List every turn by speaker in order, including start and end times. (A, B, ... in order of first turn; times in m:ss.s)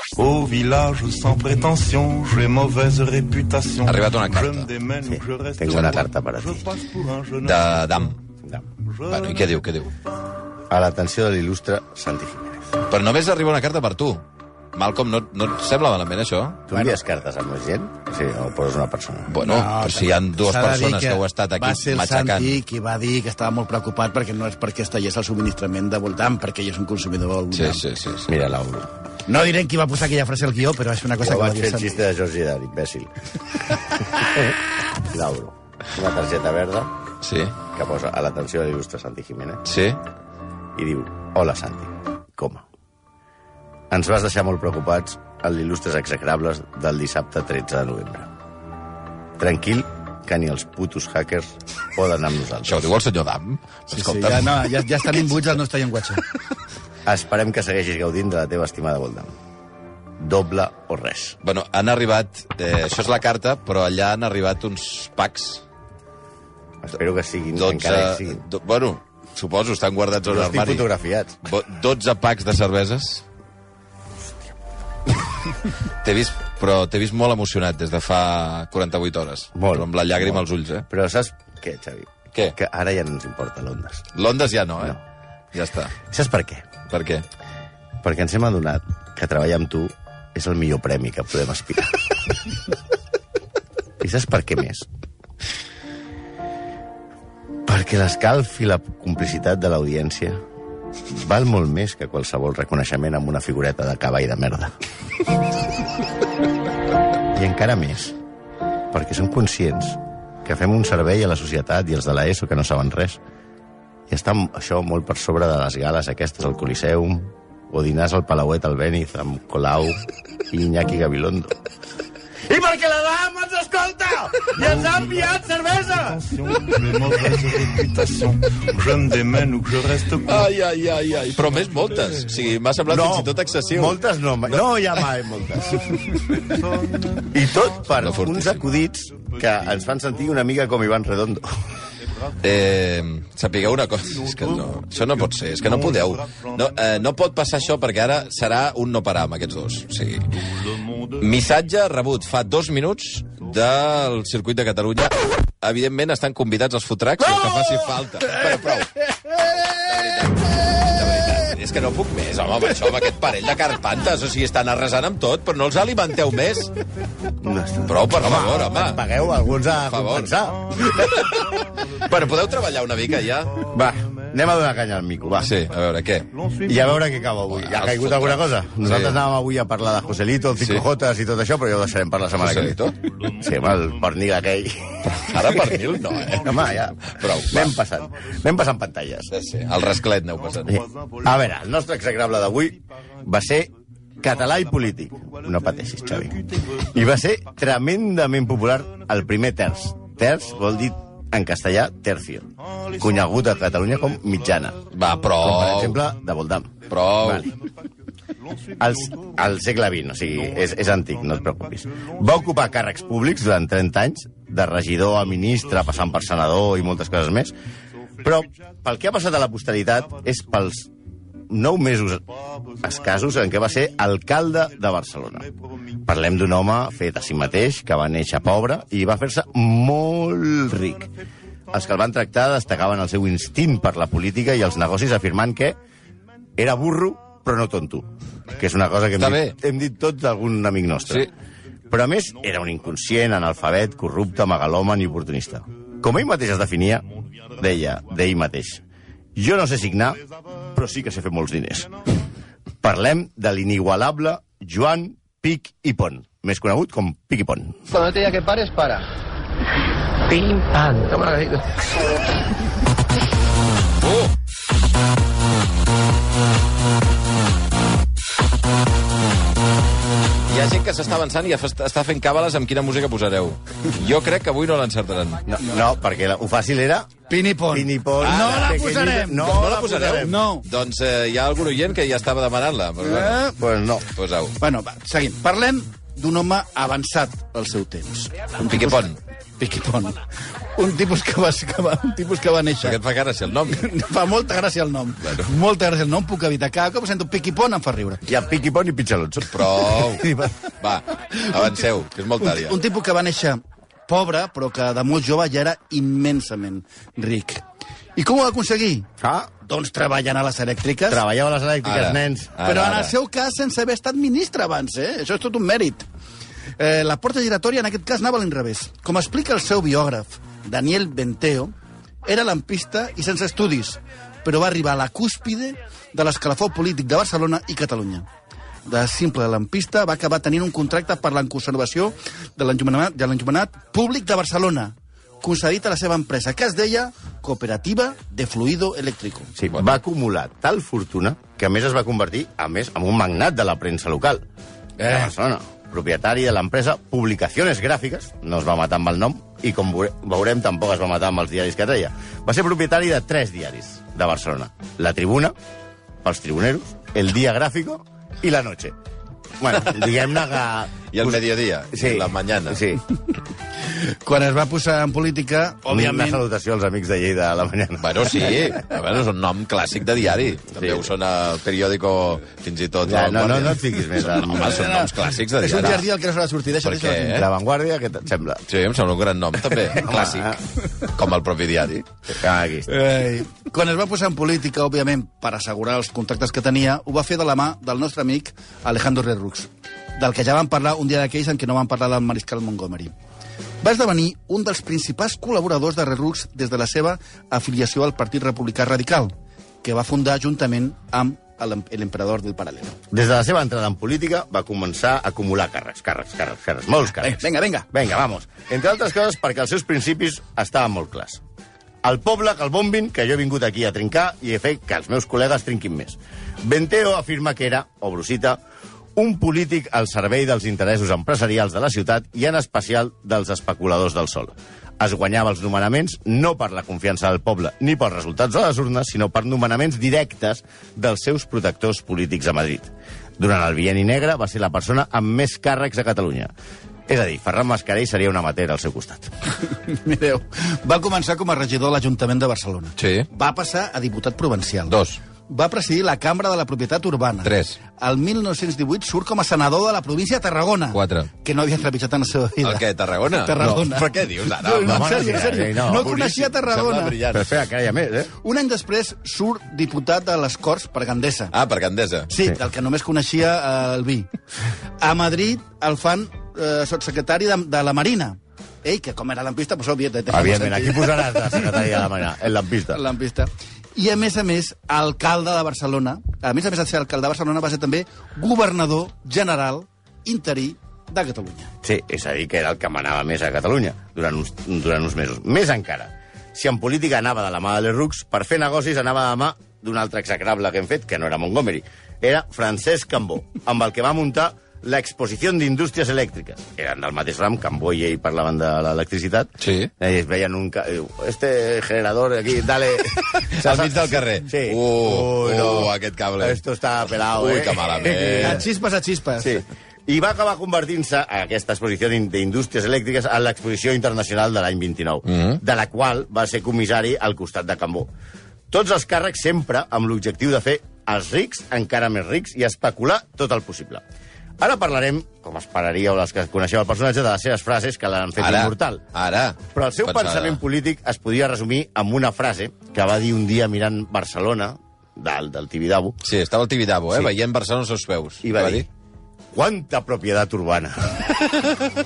0:00.2-0:06.0 A
0:03.8-0:04.7 B
0:05.1-0:06.7 C
0:05.7-0:06.0 B
0:06.6-0:07.5 A
0:07.4-0:08.2 B
0:09.0-0:09.9 B
0:10.7-0:12.8 C
0:12.9-0:14.2 B
0:14.7-0:16.6 B
0:16.7-0:19.4 C
0:16.7-0:17.0 D
0:19.3-0:22.6 B
0:19.4-0:27.8 D
0:27.5-0:28.3 B
0:28.3-0:28.9 C
0:29.2-0:32.0 D
0:31.2-0:33.1 C
0:33.9-0:36.9 C
0:37.2-0:37.5 B
0:37.7-0:39.6 C
0:39.6-0:40.0 B
0:40.8-0:42.6 C
0:43.9-0:48.3 C
0:49.4-0:52.9 C
0:52.6-0:54.6 B
0:53.9-0:56.2 D
0:57.0-0:59.3 C
1:00.2-1:01.4 C
1:01.4-1:05.6 B
1:06.8-1:08.4 C
1:07.6-1:10.8 B
1:10.2-1:11.4 C
1:11.4-1:13.2 B
1:16.0-1:20.8 B
1:19.6-1:24.0 C
1:24.1-1:25.0 B
1:25.5-1:26.0 B
1:26.1-1:26.7 C
1:26.9-1:27.2 B
1:28.0-1:32.0 C
1:34.0-1:34.9 C
1:37.6-1:40.4 C
1:41.1-1:44.7 C
1:47.3-1:48.2 C
1:48.9-1:53.2 C
1:54.1-2:01.5 C
2:02.5-2:07.1 C
2:06.2-2:10.4 A
2:10.1-2:14.6 B
2:12.9-2:15.8 C
2:17.3-2:21.5 C
2:18.0-2:18.6 B
2:22.4-2:30.3 B
2:31.1-2:46.7 B
2:47.4-2:50.8 C
2:47.8-2:49.0 B
2:49.8-2:53.7 B
2:53.7-2:55.5 C
2:55.4-2:56.3 B
2:56.6-3:05.8 C
2:57.5-2:59.2 B
3:00.6-3:00.8 B
3:02.4-3:02.9 B
3:05.2-3:07.8 B
3:06.4-3:09.3 C
3:09.3-3:10.8 B
3:10.6-3:24.8 C
3:24.9-3:26.0 B
3:25.4-3:27.5 C
3:26.9-3:27.5 B
3:28.8-3:37.5 C
3:38.2-3:40.9 C
3:41.5-3:42.2 C
3:42.8-3:45.5 C
3:46.0-3:51.1 C
3:51.7-3:55.8 C
3:56.6-4:01.3 C
3:59.2-3:59.6 B
4:01.9-4:07.0 C
4:07.6-4:08.8 C
4:09.4-4:10.2 C
4:10.7-4:11.9 C
4:12.8-4:17.8 C
4:17.9-4:18.9 E
4:20.5-4:21.4 E
4:24.0-4:24.3 B
4:30.5-4:35.4 B
4:35.5-4:37.1 C
4:37.3-4:39.6 D
4:37.7-4:40.5 C
4:38.2-4:38.7 B
4:39.4-4:43.6 B
4:40.2-4:40.7 D
4:43.0-4:43.6 D
4:43.6-4:44.0 C
4:44.1-4:44.5 B
4:44.6-4:50.2 D
4:48.6-4:49.2 B
4:50.7-4:53.0 D
4:52.8-4:53.9 B
4:53.7-4:58.3 D
4:58.3-5:00.5 C
4:59.5-5:00.3 B
5:00.8-5:02.8 B
5:01.5-5:01.8 D
5:02.4-5:07.6 D
5:08.2-5:11.2 D
5:09.2-5:09.5 C
5:11.1-5:12.6 C
5:11.8-5:13.1 B
5:12.6-5:16.1 D
5:16.8-5:21.7 D
5:22.2-5:28.3 D
5:28.8-5:39.5 D
5:39.6-5:44.4 C
5:39.6-5:39.9 B
5:45.0-5:45.3 B
5:45.0-5:55.5 C
5:56.2-5:58.9 C
5:59.6-6:01.4 C
6:01.1-6:02.8 B
6:01.9-6:03.0 C
6:03.8-6:06.4 D
6:05.9-6:08.8 C
6:08.0-6:16.0 B
6:10.8-6:11.1 C
6:13.0-6:14.8 C
6:14.4-6:17.4 D
6:16.8-6:17.5 B
6:17.3-6:18.6 C
6:18.7-6:20.6 B
6:19.9-6:20.6 C
6:21.1-6:22.0 B
6:22.3-6:22.9 C
6:22.9-6:33.1 D
6:33.8-6:43.0 D
6:43.1-6:51.4 C
6:47.2-6:47.9 D
6:52.0-6:58.6 C
6:59.2-7:16.5 C
7:17.1-7:19.3 C
7:19.6-7:37.2 D
7:23.0-7:23.3 B
7:24.9-7:25.2 B
7:27.4-7:27.8 B
7:30.9-7:31.3 B
7:32.6-7:37.6 B
7:34.8-7:36.1 C
7:37.3-7:38.3 C
7:38.4-7:41.5 D
7:41.5-7:42.3 B
7:42.3-7:44.3 D
7:45.0-7:51.6 D
7:50.3-7:53.0 C
7:52.9-8:01.7 D
8:01.8-8:28.6 C
8:19.6-8:19.9 B
8:23.5-8:28.6 B
8:28.4-8:29.6 D
8:29.4-8:38.1 C
8:35.3-8:35.6 B
8:38.7-8:44.0 C
8:44.6-8:49.0 C
8:48.4-8:50.6 B
8:49.7-8:56.2 C
8:56.2-8:58.9 B
8:58.4-8:58.9 C
8:59.5-9:01.3 C